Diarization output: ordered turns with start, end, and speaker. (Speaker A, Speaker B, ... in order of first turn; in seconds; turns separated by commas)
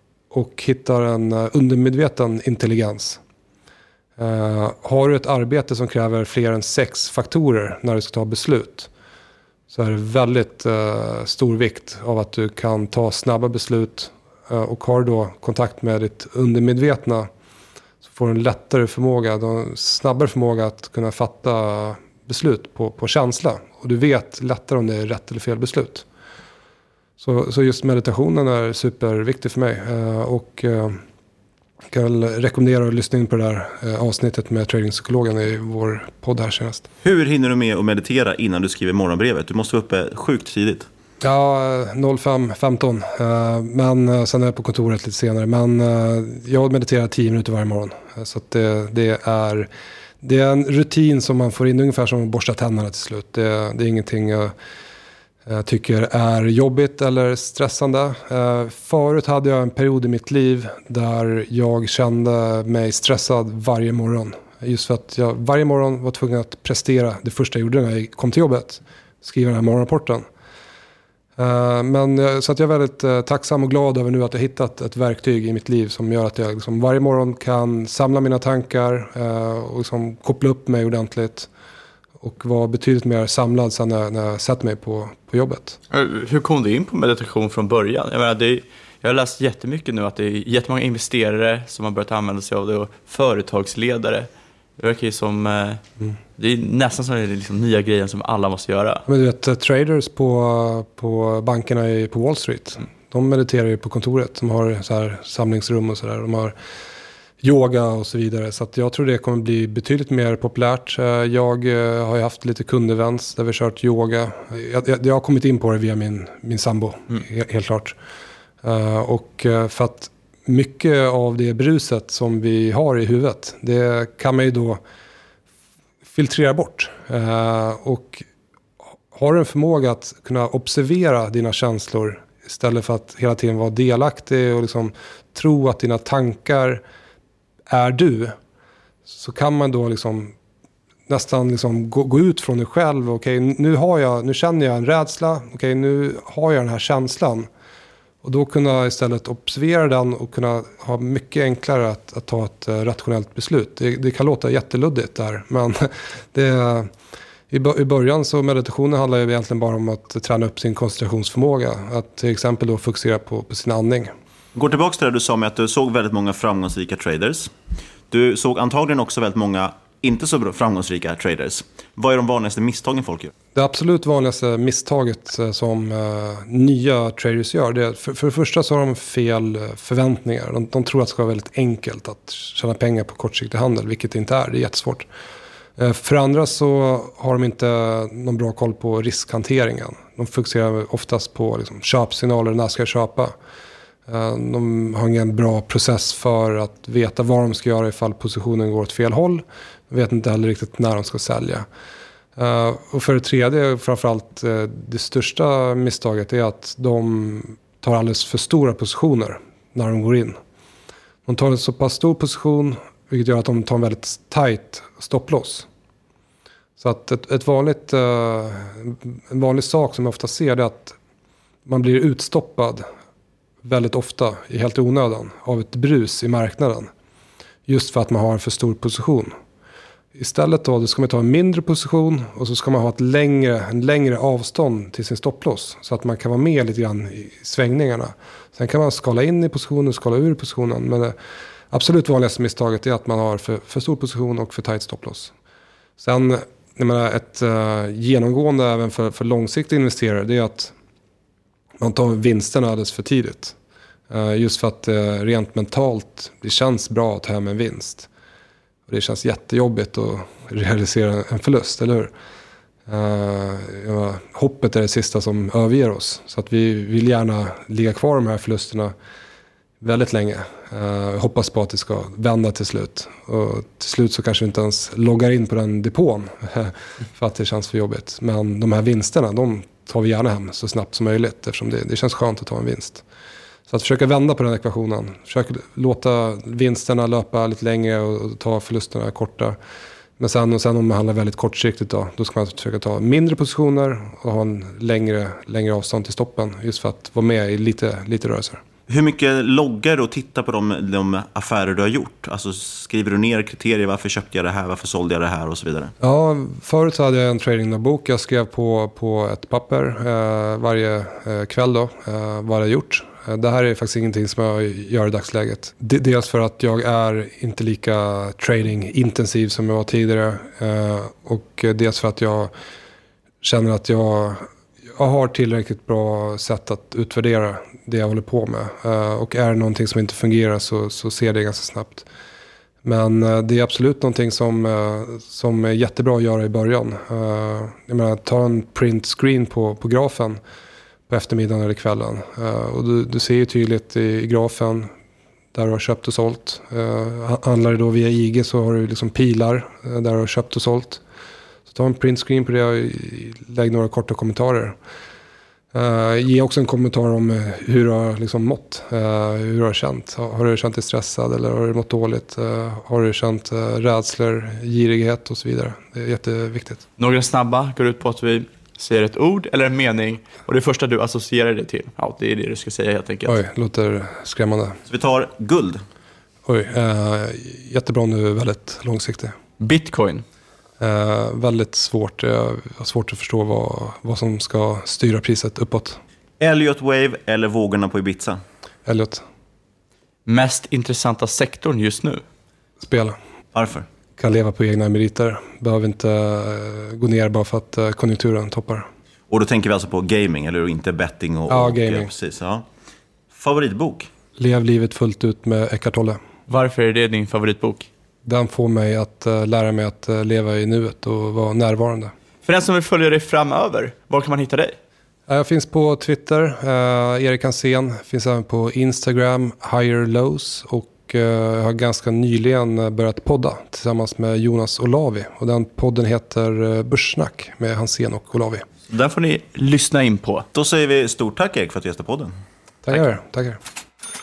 Speaker A: 0.3-3.2, Speaker A: 4.2-8.9, Speaker A: 9.7-17.3, Speaker A: 18.0-26.1, Speaker A: 27.2-31.0, Speaker A: 31.9-36.9, Speaker B: 37.0-40.9, Speaker A: 41.2-49.7, Speaker A: 50.2-54.5, Speaker A: 55.5-70.2, Speaker A: 71.4-81.5, Speaker A: 82.2-85.8, Speaker C: 85.9-95.8, Speaker C: 96.4-99.0, Speaker A: 99.1-106.5, Speaker A: 107.4-118.0, Speaker A: 118.6-124.8, Speaker A: 126.1-128.3, Speaker A: 129.1-136.8, Speaker A: 137.7-138.4, Speaker A: 139.1-140.3, Speaker A: 141.1-147.5, Speaker A: 148.2-156.9, Speaker A: 157.5-164.1, Speaker B: 164.5-167.5, Speaker B: 168.1-173.3, Speaker A: 173.6-185.1, Speaker A: 185.8-193.3, Speaker A: 194.1-201.7, Speaker A: 202.4-210.4, Speaker A: 211.3-215.7, Speaker A: 216.8-221.0, Speaker A: 221.7-222.9, Speaker A: 223.6-226.9, Speaker A: 227.7-229.3, Speaker A: 230.2-241.2, Speaker A: 241.7-245.3, Speaker A: 246.0-250.7, Speaker A: 251.8-253.6, Speaker A: 254.1-258.1, Speaker A: 258.9-262.1, Speaker A: 262.9-268.9, Speaker A: 269.8-283.0, Speaker A: 283.7-289.6, Speaker A: 290.2-298.6, Speaker B: 298.9-305.9, Speaker A: 306.0-322.5, Speaker A: 323.4-332.1, Speaker A: 332.8-340.4, Speaker A: 341.1-344.9, Speaker A: 345.5-351.0, Speaker A: 351.7-354.8, Speaker A: 355.7-366.9, Speaker C: 367.0-373.4, Speaker A: 373.2-374.8, Speaker B: 374.9-375.8, Speaker A: 376.5-379.4, Speaker C: 379.6-380.2, Speaker A: 380.8-386.0, Speaker B: 386.4-388.4, Speaker A: 388.9-389.2, Speaker C: 390.3-392.2, Speaker A: 392.8-393.2, Speaker B: 393.5-393.9, Speaker A: 394.2-398.9, Speaker B: 399.3-402.6, Speaker A: 401.5-402.1, Speaker B: 403.3-404.1, Speaker A: 404.4-406.2, Speaker C: 406.5-407.9, Speaker A: 408.2-412.1, Speaker C: 412.4-414.8, Speaker A: 415.3-428.7, Speaker C: 428.9-430.5, Speaker B: 430.5-432.3, Speaker A: 432.9-433.6